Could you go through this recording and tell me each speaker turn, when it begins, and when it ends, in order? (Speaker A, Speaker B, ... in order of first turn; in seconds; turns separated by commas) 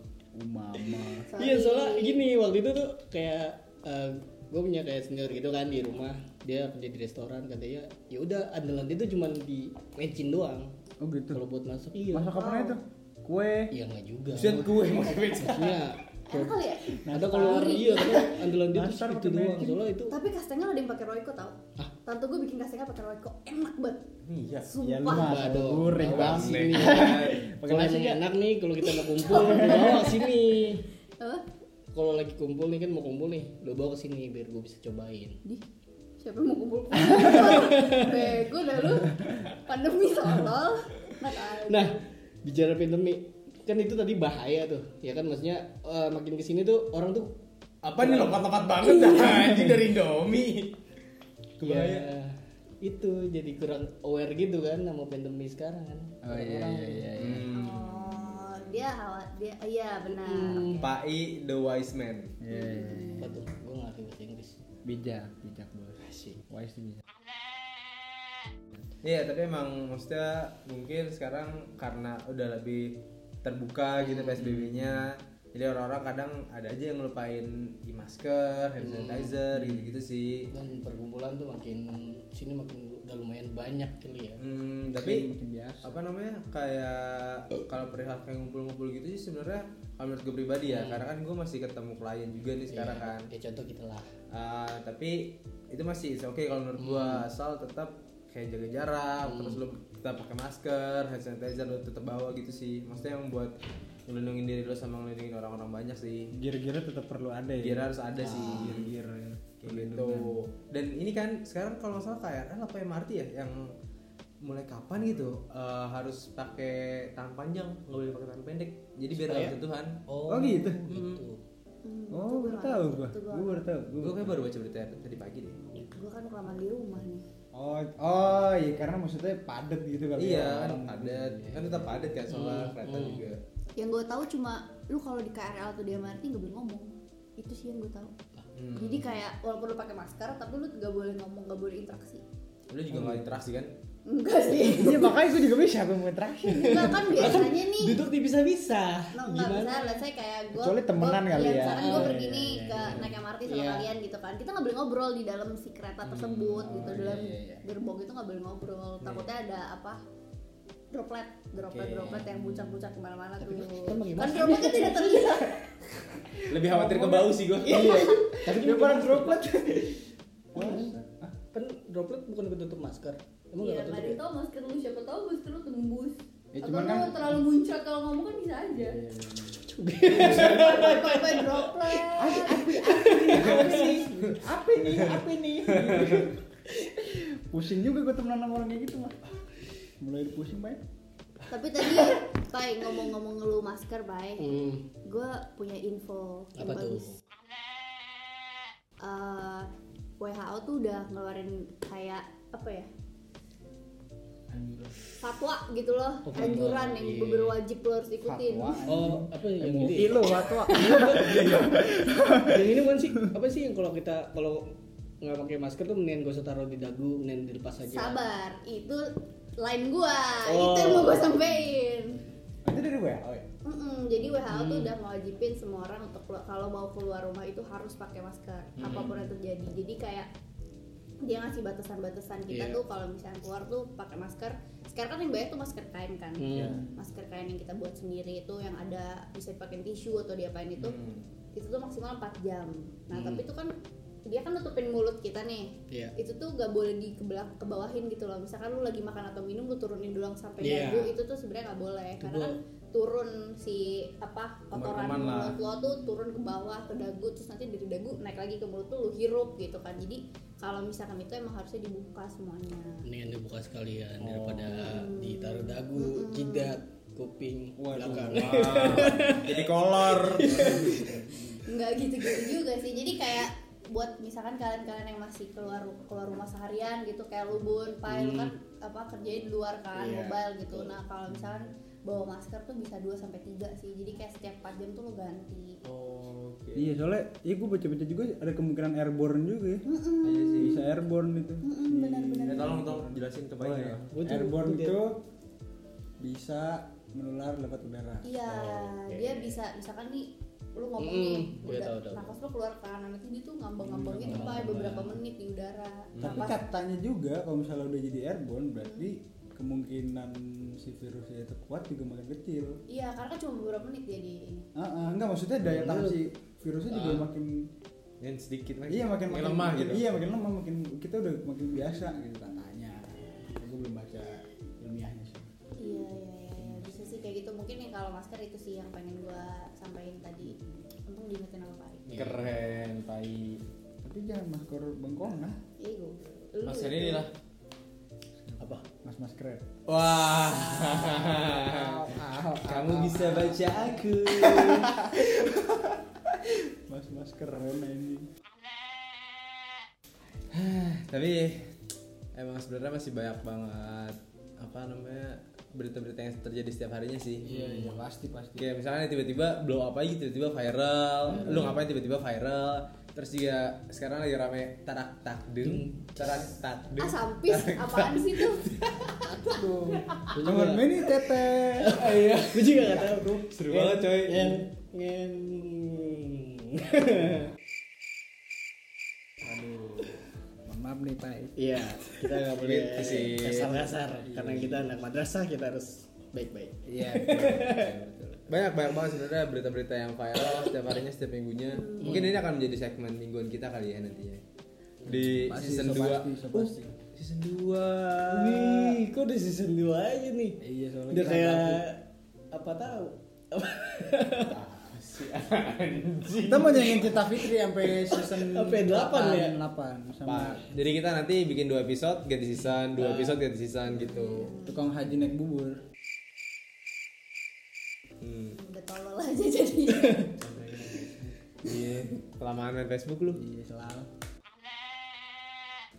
Speaker A: 0.3-1.3, Speaker B: 1.3-2.2, Speaker C: 1.3-10.7, Speaker A: 11.0-11.4, Speaker C: 11.3-12.4, Speaker A: 12.1-13.7, Speaker B: 12.3-12.8, Speaker C: 13.7-16.5, Speaker D: 14.3-16.0, Speaker B: 16.3-18.3, Speaker A: 17.0-19.8, Speaker C: 17.1-20.1, Speaker B: 20.1-25.4, Speaker D: 24.2-24.7, Speaker A: 24.8-28.2, Speaker C: 25.1-30.9, Speaker D: 26.0-27.5, Speaker B: 29.1-30.3, Speaker A: 29.4-29.9, Speaker B: 31.2-31.4, Speaker C: 31.9-35.4, Speaker B: 36.2-42.0, Speaker C: 37.2-38.3, Speaker C: 41.6-47.4, Speaker D: 47.8-50.7, Speaker C: 48.0-49.7, Speaker D: 51.6-52.1, Speaker C: 51.6-57.1, Speaker A: 56.2-57.5, Speaker D: 57.2-58.6, Speaker B: 57.5-60.9, Speaker C: 60.1-60.9, Speaker D: 60.8-62.3, Speaker A: 62.4-63.4, Speaker B: 62.5-63.3, Speaker C: 63.2-64.6, Speaker A: 64.8-67.0, Speaker C: 66.0-66.4, Speaker D: 69.0-80.5, Speaker C: 74.0-75.1, Speaker C: 78.8-79.8, Speaker C: 80.5-84.4, Speaker D: 84.4-85.3, Speaker A: 84.9-86.0, Speaker D: 85.8-93.3, Speaker C: 90.7-91.0, Speaker C: 92.7-94.1, Speaker D: 94.3-103.5, Speaker C: 96.8-97.3, Speaker C: 99.2-99.6, Speaker D: 104.1-106.3, Speaker A: 106.3-110.4, Speaker D: 107.6-108.9, Speaker C: 108.2-108.8, Speaker D: 109.6-113.7, Speaker D: 114.4-120.0, Speaker C: 119.1-121.4, Speaker A: 120.3-120.9, Speaker D: 120.9-121.2, Speaker B: 121.8-123.7, Speaker A: 122.1-124.5, Speaker D: 124.0-125.6, Speaker B: 125.8-127.2, Speaker A: 127.5-131.9, Speaker D: 130.2-133.4, Speaker C: 132.3-133.3, Speaker B: 133.8-138.1, Speaker C: 138.4-138.9, Speaker D: 138.6-139.0, Speaker B: 138.7-142.2, Speaker D: 142.7-143.7, Speaker A: 142.9-143.2, Speaker B: 144.1-145.2, Speaker A: 144.6-147.5, Speaker B: 146.5-148.0, Speaker C: 146.6-150.0, Speaker B: 149.1-160.0, Speaker A: 150.5-153.1, Speaker C: 151.3-153.9, Speaker D: 156.1-156.9, Speaker A: 156.6-157.6, Speaker C: 156.7-157.3, Speaker D: 159.0-159.3, Speaker B: 160.9-165.7, Speaker C: 161.7-162.4, Speaker C: 163.4-165.5, Speaker A: 166.3-171.3, Speaker D: 166.5-168.1, Speaker C: 167.7-169.5, Speaker B: 167.7-168.3, Speaker C: 170.6-170.9, Speaker C: 171.5-174.2, Speaker B: 173.6-179.0, Speaker A: 176.5-177.3, Speaker A: 178.8-179.6, Speaker C: 179.5-184.1, Speaker D: 180.1-180.8, Speaker B: 180.1-182.7, Speaker A: 180.2-180.5, Speaker A: 182.2-186.4, Speaker D: 183.4-183.8, Speaker D: 185.7-186.3, Speaker A: 187.0-189.2, Speaker A: 190.0-190.8, Speaker B: 191.5-197.1, Speaker C: 194.4-194.8, Speaker C: 196.6-197.2, Speaker B: 199.0-202.9, Speaker A: 204.5-204.9, Speaker B: 205.2-208.8, Speaker C: 206.2-207.6, Speaker A: 208.2-213.3, Speaker C: 208.9-218.2, Speaker B: 217.9-222.2, Speaker C: 220.4-221.4, Speaker A: 222.7-223.5, Speaker B: 223.6-230.3, Speaker C: 224.5-224.9, Speaker C: 228.8-229.3, Speaker B: 231.2-241.0, Speaker C: 232.5-232.8, Speaker C: 236.4-236.8, Speaker D: 236.5-236.8, Speaker A: 236.6-237.0, Speaker D: 240.8-241.2, Speaker B: 241.6-243.7, Speaker C: 243.1-243.5, Speaker B: 244.3-263.0, Speaker C: 250.6-251.1, Speaker C: 252.2-252.6, Speaker D: 254.7-255.6, Speaker C: 263.0-271.3, Speaker D: 264.2-265.1, Speaker B: 264.9-266.8, Speaker A: 267.8-269.6, Speaker D: 268.1-271.2, Speaker A: 270.2-271.7, Speaker B: 271.6-285.8, Speaker C: 272.2-272.6, Speaker C: 278.1-278.5, Speaker C: 279.9-280.9, Speaker D: 285.8-286.9, Speaker A: 286.7-289.9, Speaker B: 289.9-290.7, Speaker D: 290.2-290.8, Speaker A: 290.6-295.2, Speaker B: 291.6-292.7, Speaker D: 292.5-294.2, Speaker C: 294.1-295.0, Speaker A: 296.2-298.3, Speaker B: 298.2-306.6, Speaker C: 298.5-299.6, Speaker C: 301.0-302.3, Speaker A: 303.8-305.2, Speaker C: 304.2-305.2, Speaker D: 306.2-306.5, Speaker A: 306.2-312.8, Speaker B: 308.8-309.1, Speaker B: 312.9-314.7, Speaker A: 314.8-317.7, Speaker C: 315.6-316.2, Speaker C: 316.9-317.3, Speaker D: 318.2-320.1, Speaker A: 318.9-325.5, Speaker B: 325.8-332.1, Speaker A: 326.6-326.9, Speaker C: 332.1-332.5, Speaker D: 332.1-333.6, Speaker A: 334.0-335.6, Speaker B: 335.8-337.3, Speaker D: 336.6-337.3, Speaker A: 338.5-339.7, Speaker D: 339.9-342.1, Speaker C: 340.6-341.0, Speaker A: 341.6-348.3, Speaker D: 342.6-345.1, Speaker D: 350.5-351.7, Speaker D: 352.4-357.5, Speaker C: 357.4-358.0, Speaker A: 357.4-358.7, Speaker D: 358.6-369.1, Speaker A: 361.3-361.8, Speaker C: 365.6-366.5, Speaker B: 367.0-368.7, Speaker A: 369.2-373.8, Speaker C: 370.3-377.5, Speaker D: 371.9-374.6, Speaker A: 379.4-381.6, Speaker C: 381.6-388.0, Speaker D: 382.2-383.9, Speaker A: 384.2-384.9, Speaker D: 386.9-394.4, Speaker C: 390.4-390.7, Speaker B: 391.8-392.1, Speaker C: 392.0-392.4, Speaker D: 395.1-399.0, Speaker C: 395.1-396.7, Speaker A: 395.4-397.0, Speaker C: 398.3-404.6, Speaker A: 400.6-401.9, Speaker D: 404.5-407.1, Speaker A: 406.4-410.7, Speaker C: 406.8-407.3, Speaker C: 407.9-409.6, Speaker D: 410.3-414.5, Speaker C: 413.0-413.4, Speaker B: 413.9-414.9, Speaker A: 414.6-415.8, Speaker D: 418.2-418.6, Speaker B: 418.5-420.3, Speaker D: 420.4-423.4, Speaker A: 423.3-424.1